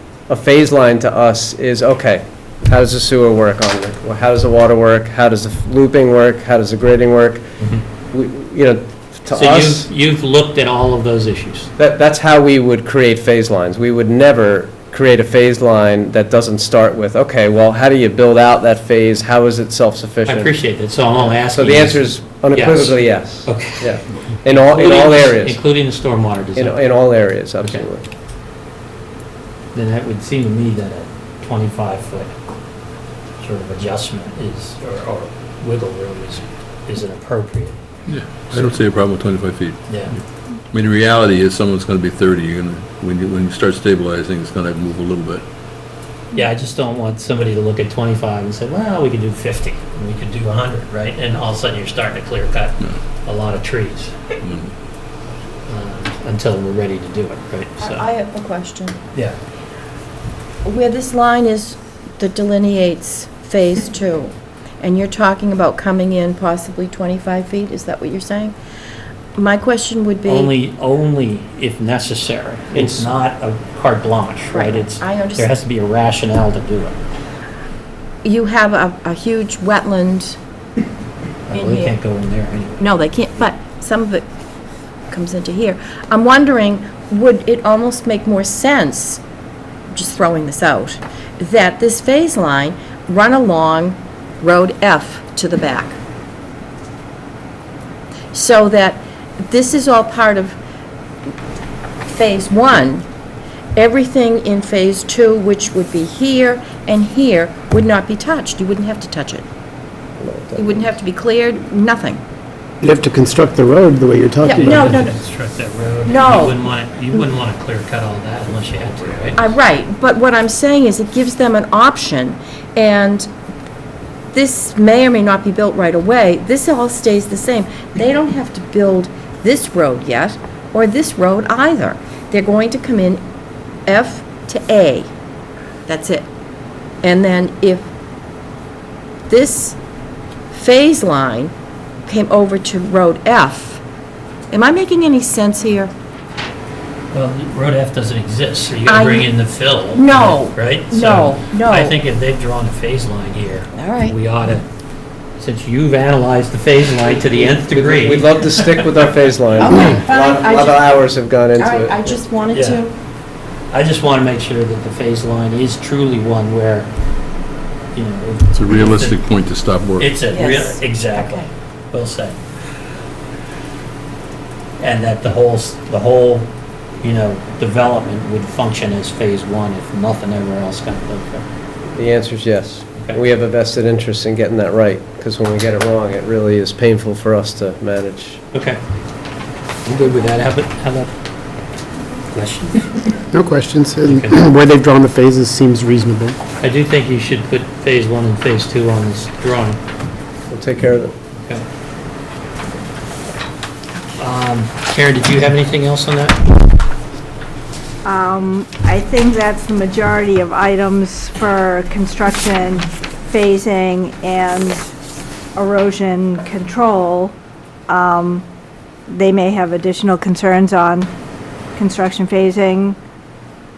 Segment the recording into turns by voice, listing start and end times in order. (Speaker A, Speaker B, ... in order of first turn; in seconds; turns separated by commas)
Speaker A: 0.3-7.5, Speaker A: 8.1-9.9, Speaker B: 9.3-11.7, Speaker A: 11.8-20.6, Speaker B: 20.3-23.9, Speaker A: 21.2-25.6, Speaker B: 24.5-26.8, Speaker A: 26.6-28.1, Speaker B: 29.7-32.3, Speaker B: 33.4-37.8, Speaker C: 38.1-40.0, Speaker B: 39.9-40.1, Speaker C: 40.7-45.4, Speaker B: 46.3-54.2, Speaker C: 54.4-54.7, Speaker B: 55.7-58.1, Speaker D: 57.8-59.0, Speaker D: 60.6-68.5, Speaker D: 69.4-70.5, Speaker B: 70.3-77.0, Speaker D: 74.5-75.5, Speaker D: 78.2-80.4, Speaker B: 81.5-83.4, Speaker D: 81.5-82.0, Speaker D: 82.8-84.3, Speaker D: 85.1-89.2, Speaker D: 89.9-96.0, Speaker D: 98.3-100.6, Speaker D: 102.1-103.0, Speaker D: 103.8-109.5, Speaker A: 110.2-110.9, Speaker D: 110.6-112.2, Speaker E: 112.8-115.0, Speaker D: 114.4-115.2, Speaker B: 114.5-119.5, Speaker D: 116.1-116.6, Speaker D: 119.4-123.3, Speaker D: 124.3-133.2, Speaker D: 133.9-135.1, Speaker D: 135.9-136.3, Speaker D: 137.0-137.9, Speaker D: 139.3-139.8, Speaker D: 140.5-141.5, Speaker D: 142.1-143.8, Speaker D: 144.5-145.9, Speaker B: 147.1-154.7, Speaker D: 148.9-149.3, Speaker D: 149.9-152.0, Speaker D: 153.8-154.2, Speaker B: 155.4-158.8, Speaker A: 157.1-162.0, Speaker D: 159.6-162.9, Speaker B: 162.5-162.8, Speaker B: 163.7-166.9, Speaker B: 167.9-169.2, Speaker C: 168.6-170.2, Speaker B: 170.0-172.4, Speaker D: 170.3-171.5, Speaker B: 174.8-181.4, Speaker A: 181.9-188.4, Speaker B: 188.5-188.8, Speaker B: 189.8-191.1, Speaker B: 192.3-193.0, Speaker E: 193.3-196.4, Speaker B: 194.1-194.4, Speaker B: 196.6-199.8, Speaker A: 200.5-201.1, Speaker B: 204.2-206.4, Speaker F: 208.1-214.8, Speaker F: 215.6-217.3, Speaker F: 217.9-218.4, Speaker F: 219.1-221.1, Speaker F: 221.8-223.0